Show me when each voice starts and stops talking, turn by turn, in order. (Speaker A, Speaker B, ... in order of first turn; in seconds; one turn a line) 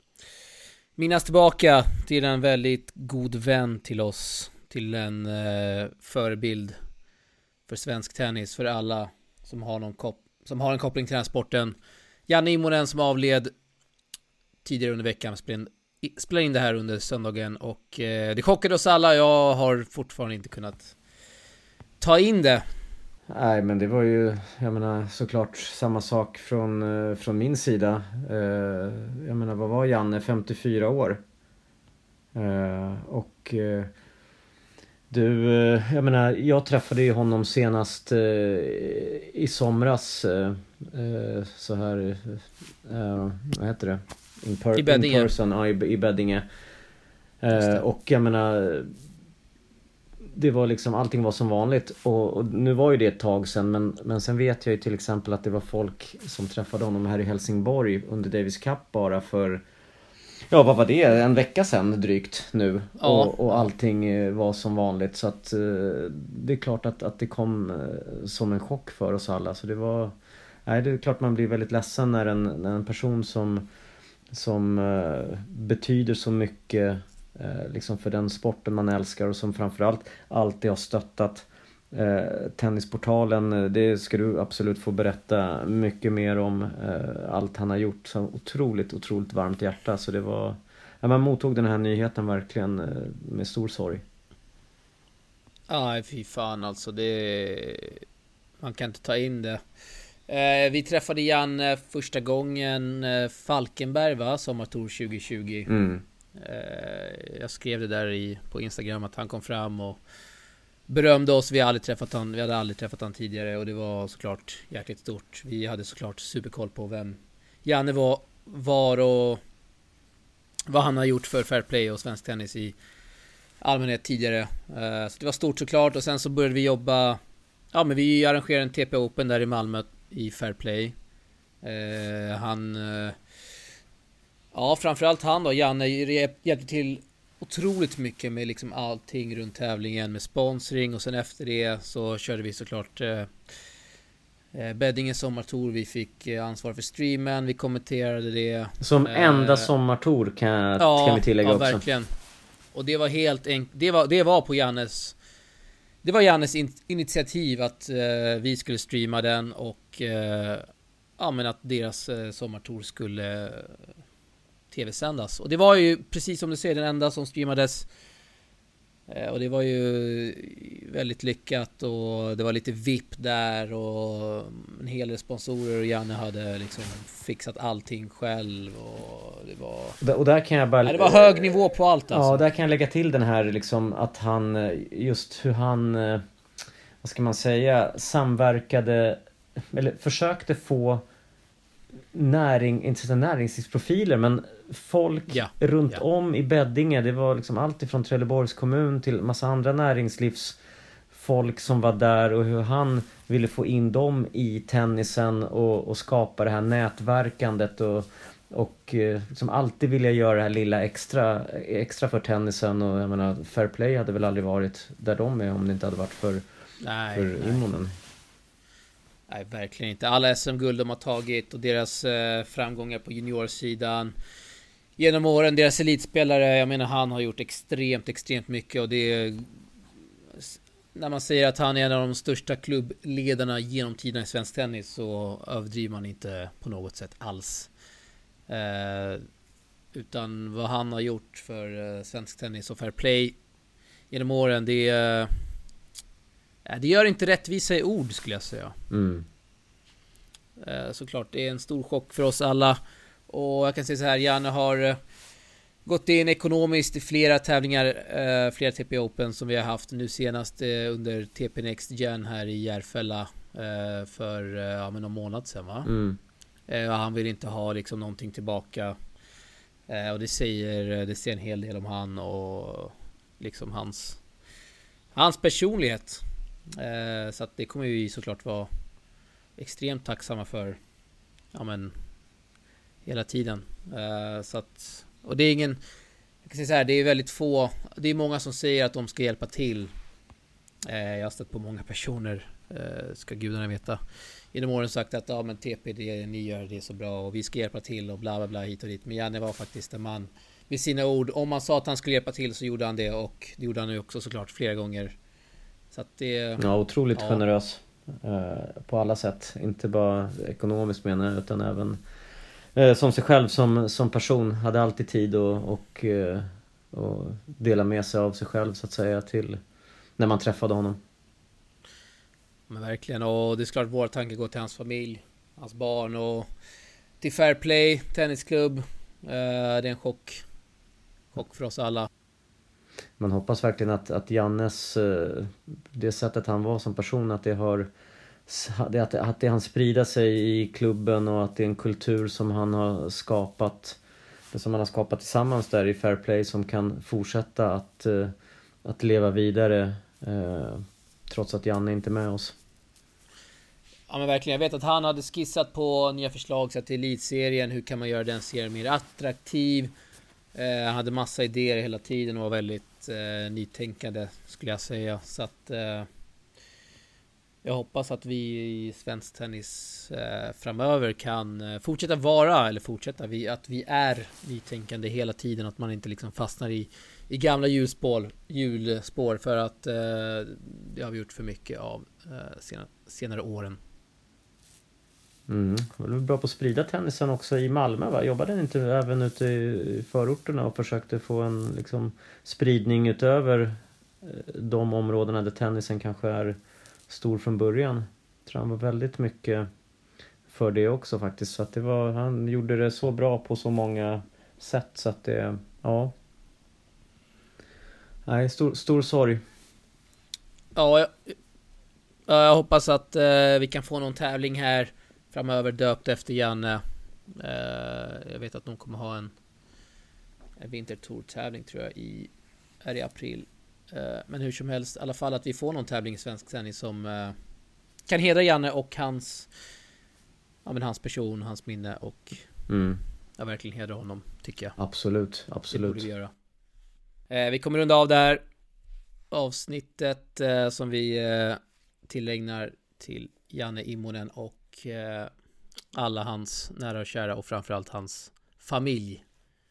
Speaker A: 0.9-6.8
Speaker A: 7.7-11.7
Speaker A: 12.3-13.5
Speaker A: 14.6-20.9
Speaker A: 22.0-22.6
Speaker B: 23.3-31.2
Speaker B: 32.3-33.9
Speaker B: 35.1-46.4
Speaker A: 44.8-45.3
Speaker B: 47.4-48.9
Speaker A: 47.5-47.8
Speaker B: 50.3-59.6
Speaker B: 60.5-70.1
Speaker A: 63.0-63.7
Speaker B: 70.7-73.6
Speaker B: 74.3-94.0
Speaker A: 95.7-98.0
Speaker A: 98.6-99.6
Speaker A: 100.3-105.7
Speaker B: 105.7-106.0
Speaker A: 106.3-110.0
Speaker A: 110.9-119.4
Speaker A: 120.7-122.7
Speaker A: 123.6-127.2
Speaker A: 127.7-130.9
Speaker A: 131.6-133.2
Speaker A: 134.5-143.3
Speaker A: 144.5-149.7
Speaker B: 148.8-151.8
Speaker A: 150.8-152.1
Speaker A: 152.7-155.2
Speaker A: 156.0-160.7
Speaker A: 161.2-163.8
Speaker A: 164.7-167.9
Speaker A: 169.1-180.0
Speaker B: 180.0-181.6
Speaker A: 180.8-182.4
Speaker B: 182.1-186.2
Speaker B: 187.0-189.2
Speaker B: 189.7-191.0
Speaker B: 192.1-200.6
Speaker A: 195.3-196.0
Speaker B: 201.1-216.4
Speaker A: 216.8-217.6
Speaker B: 217.1-217.9
Speaker A: 219.3-224.1
Speaker A: 225.0-229.5
Speaker A: 230.3-237.7
Speaker A: 238.5-239.2
Speaker A: 239.9-243.4
Speaker A: 244.1-245.3
Speaker A: 246.6-248.7
Speaker B: 248.9-249.2
Speaker A: 250.6-255.0
Speaker A: 255.8-265.9
Speaker B: 265.9-266.2
Speaker A: 266.7-268.9
Speaker A: 269.9-274.2
Speaker A: 275.1-276.2
Speaker A: 276.8-278.7
Speaker A: 279.6-280.8
Speaker A: 281.5-281.9
Speaker A: 283.0-285.8
Speaker A: 286.4-289.9
Speaker A: 290.9-294.0
Speaker A: 294.5-305.1
Speaker A: 305.9-306.6
Speaker B: 306.6-312.0
Speaker A: 307.1-307.4
Speaker B: 312.8-319.6
Speaker B: 320.2-321.0
Speaker A: 322.7-326.5
Speaker A: 327.2-330.4
Speaker A: 331.3-332.1
Speaker B: 333.2-337.9
Speaker B: 338.5-344.0
Speaker B: 344.5-348.3
Speaker B: 348.8-352.6
Speaker A: 354.1-359.9
Speaker A: 360.5-366.1
Speaker A: 367.6-383.8
Speaker B: 385.5-396.6
Speaker B: 397.1-399.6
Speaker B: 400.5-406.1
Speaker B: 408.3-409.4
Speaker A: 410.7-411.3
Speaker A: 412.3-419.3
Speaker A: 420.6-422.3
Speaker A: 422.8-427.4
Speaker A: 428.1-429.5
Speaker A: 430.6-432.5
Speaker B: 432.7-433.0
Speaker A: 433.4-434.8
Speaker B: 434.8-436.1
Speaker A: 435.7-436.3
Speaker A: 437.3-438.4
Speaker A: 439.3-445.3
Speaker A: 445.9-449.2